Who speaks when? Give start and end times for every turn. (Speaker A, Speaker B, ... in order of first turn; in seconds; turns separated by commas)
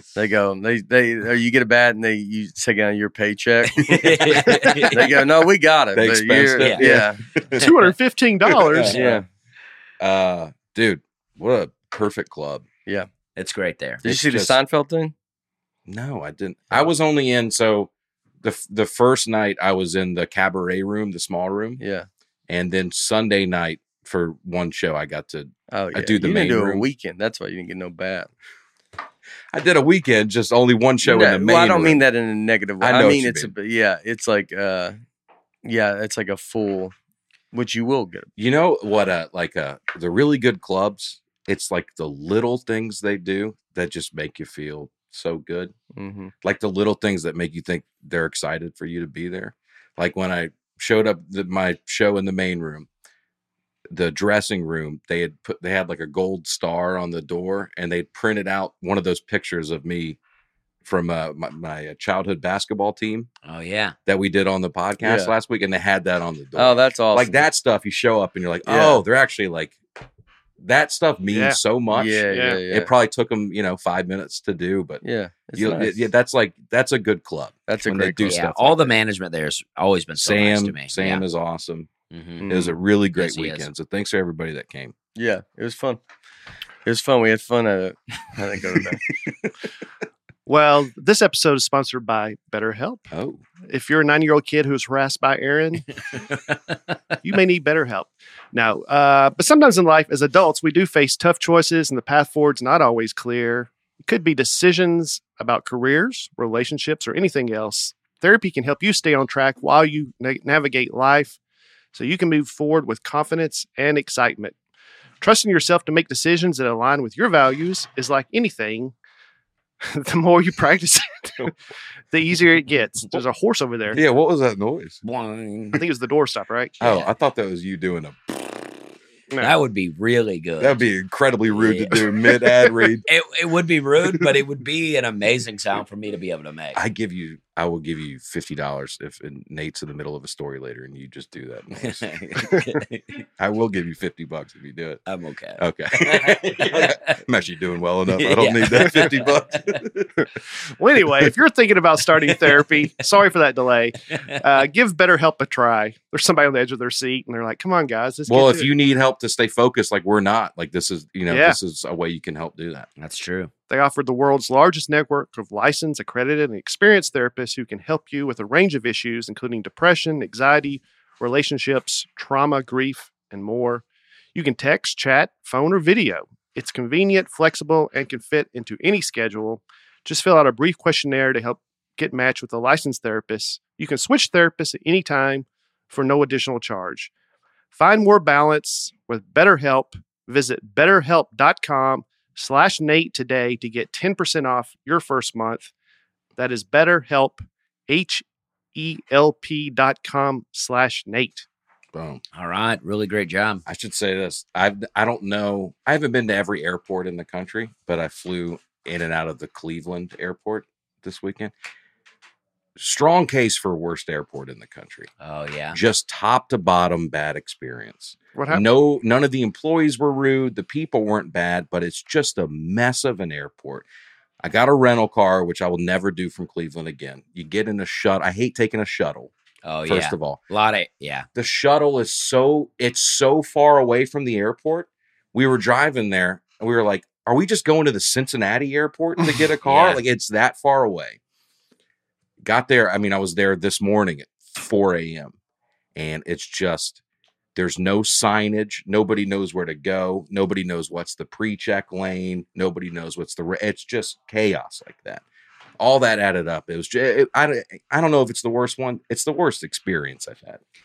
Speaker A: 0.1-4.2, Speaker B: 3.7-5.1, Speaker A: 4.9-7.2, Speaker C: 6.0-7.7, Speaker B: 6.6-6.9, Speaker D: 7.6-9.1, Speaker B: 7.6-7.9, Speaker C: 8.5-9.0, Speaker B: 8.8-9.0, Speaker A: 8.9-9.3, Speaker C: 10.0-12.7, Speaker B: 13.4-14.0, Speaker C: 14.0-14.6, Speaker A: 14.0-15.1, Speaker C: 15.9-17.9, Speaker C: 18.4-21.8, Speaker A: 21.8-22.1, Speaker C: 22.5-26.9, Speaker A: 25.7-28.3, Speaker C: 29.5-32.0, Speaker A: 31.0-35.0, Speaker C: 32.8-33.5, Speaker A: 35.6-36.9, Speaker A: 37.5-38.3, Speaker C: 38.4-45.7, Speaker A: 46.0-46.3, Speaker C: 46.4-52.9, Speaker C: 53.9-60.2, Speaker C: 60.9-63.3, Speaker B: 63.4-64.0, Speaker C: 64.1-69.8, Speaker A: 65.0-65.3, Speaker A: 66.5-67.4, Speaker A: 68.7-69.0, Speaker C: 70.6-75.0, Speaker D: 71.3-71.6, Speaker A: 71.9-72.9, Speaker D: 72.3-72.6, Speaker A: 75.0-76.0, Speaker C: 75.6-79.0, Speaker A: 77.7-78.3, Speaker B: 78.2-81.2, Speaker C: 80.2-81.9, Speaker B: 82.1-82.5, Speaker A: 82.4-82.8, Speaker C: 82.5-84.9, Speaker B: 83.2-83.7, Speaker A: 85.2-86.0, Speaker A: 86.8-89.0, Speaker D: 90.5-93.1, Speaker C: 93.1-93.4, Speaker D: 93.7-96.0, Speaker D: 97.2-111.4, Speaker D: 111.9-114.5, Speaker D: 115.2-118.9, Speaker D: 119.9-121.5, Speaker D: 122.1-124.0, Speaker C: 123.9-125.0, Speaker B: 125.0-125.8, Speaker D: 125.8-126.8, Speaker C: 126.8-128.7, Speaker B: 126.8-127.1, Speaker B: 129.4-130.8, Speaker C: 130.6-133.1, Speaker B: 131.5-132.1, Speaker B: 133.1-136.8, Speaker C: 136.8-142.1, Speaker B: 141.8-143.2, Speaker C: 143.4-145.0, Speaker B: 145.1-147.2, Speaker C: 145.6-150.2, Speaker B: 148.2-149.4, Speaker D: 150.8-158.7, Speaker C: 158.3-162.9, Speaker D: 161.3-161.6, Speaker B: 163.0-163.5, Speaker D: 163.7-173.8, Speaker D: 174.3-187.1, Speaker D: 187.7-195.7, Speaker D: 196.4-198.2, Speaker D: 198.8-201.5, Speaker C: 201.9-202.2, Speaker B: 202.3-203.6, Speaker C: 203.7-211.5, Speaker C: 212.8-215.1, Speaker B: 215.2-215.8, Speaker C: 215.7-223.9, Speaker D: 218.3-218.6, Speaker C: 224.4-229.3, Speaker B: 229.7-231.3, Speaker C: 229.9-230.4, Speaker C: 231.3-241.2, Speaker B: 239.7-240.0, Speaker C: 242.4-245.3, Speaker C: 245.9-247.0, Speaker C: 247.6-255.2, Speaker C: 255.8-260.6